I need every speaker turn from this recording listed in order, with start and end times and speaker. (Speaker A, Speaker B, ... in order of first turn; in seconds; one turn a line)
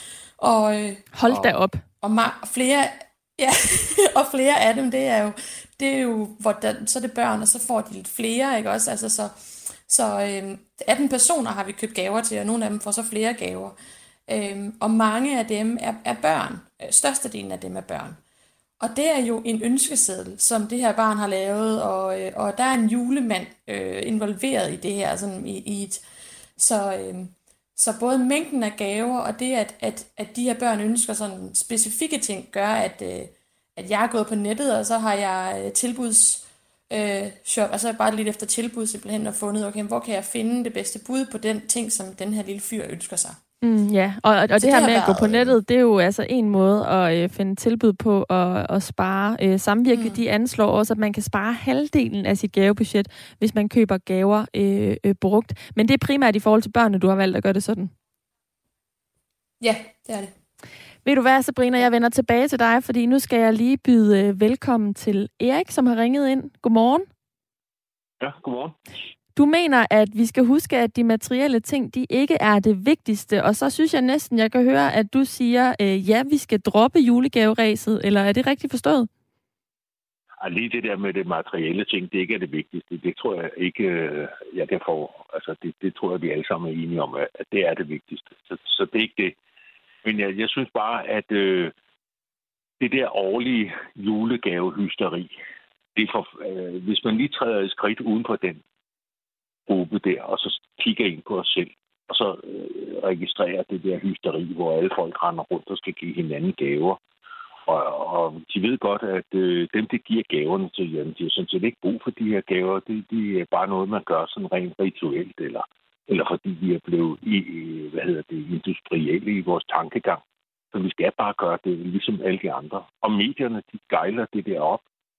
Speaker A: 0.4-13.8
Speaker B: 1.1-1.8
Speaker A: 14.3-18.2
Speaker A: 18.8-26.0
Speaker A: 26.6-43.4
Speaker B: 43.6-57.9
Speaker A: 44.5-45.6
Speaker A: 49.9-50.2
Speaker A: 59.6-60.3
Speaker B: 61.0-67.0
Speaker C: 68.2-68.7
Speaker B: 69.3-79.1
Speaker C: 80.4-89.3
Speaker C: 90.0-91.7
Speaker C: 92.8-95.3
Speaker C: 96.0-98.6
Speaker C: 99.7-107.0
Speaker C: 107.7-120.2
Speaker C: 120.7-124.8